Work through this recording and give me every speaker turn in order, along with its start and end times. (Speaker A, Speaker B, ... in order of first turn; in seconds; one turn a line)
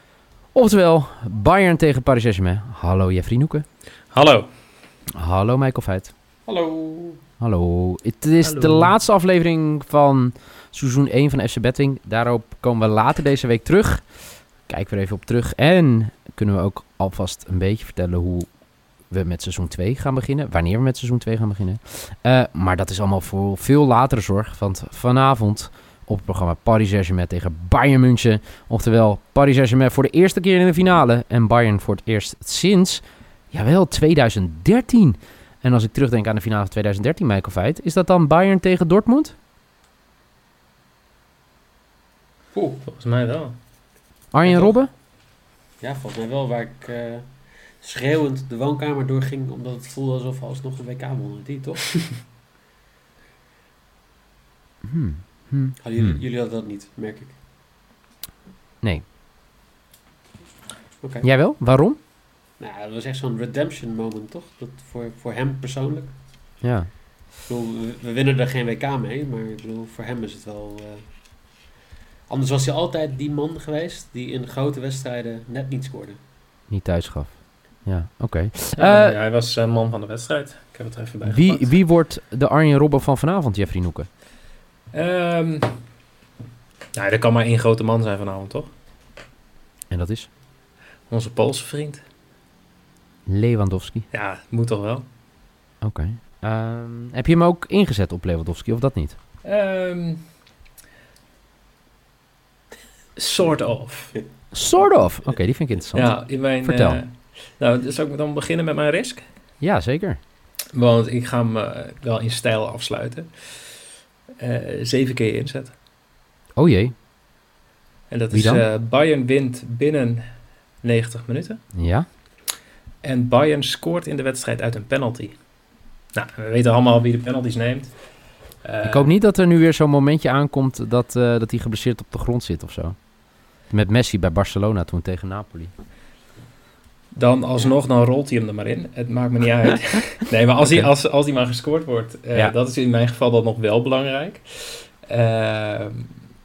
Speaker A: 0.5-3.6
Speaker B: 4.1-4.5
Speaker A: 5.2-6.1
Speaker C: 6.5-7.2
Speaker A: 7.4-14.0
Speaker B: 8.4-8.9
Speaker A: 14.7-18.5
Speaker A: 19.1-39.4
Speaker C: 42.5-42.8
Speaker B: 42.9-43.6
Speaker A: 44.3-44.9
Speaker B: 44.4-44.8
Speaker C: 45.8-47.3
Speaker C: 47.8-52.0
Speaker A: 54.8-56.2
Speaker C: 55.8-57.4
Speaker C: 61.0-61.3
Speaker A: 61.2-62.0
Speaker C: 62.6-66.2
Speaker A: 66.6-66.9
Speaker C: 67.5-71.0
Speaker C: 72.3-76.2
Speaker A: 76.7-79.2
Speaker B: 78.8-81.8
Speaker A: 81.2-84.1
Speaker B: 84.9-85.7
Speaker B: 86.9-88.7
Speaker A: 89.9-90.3
Speaker B: 91.1-92.0
Speaker A: 93.3-94.1
Speaker B: 94.1-95.0
Speaker A: 95.8-99.2
Speaker B: 99.4-100.2
Speaker B: 103.2-104.2
Speaker A: 104.5-107.0
Speaker B: 105.9-109.2
Speaker A: 109.6-110.2
Speaker B: 110.7-113.6
Speaker B: 114.4-115.7
Speaker A: 116.6-116.9
Speaker B: 118.1-120.2
Speaker A: 118.3-118.7
Speaker B: 120.8-121.6
Speaker A: 121.8-122.1
Speaker B: 123.0-125.4
Speaker B: 126.1-127.9
Speaker B: 128.6-129.1
Speaker A: 128.8-133.0
Speaker A: 133.7-135.7
Speaker B: 137.2-146.1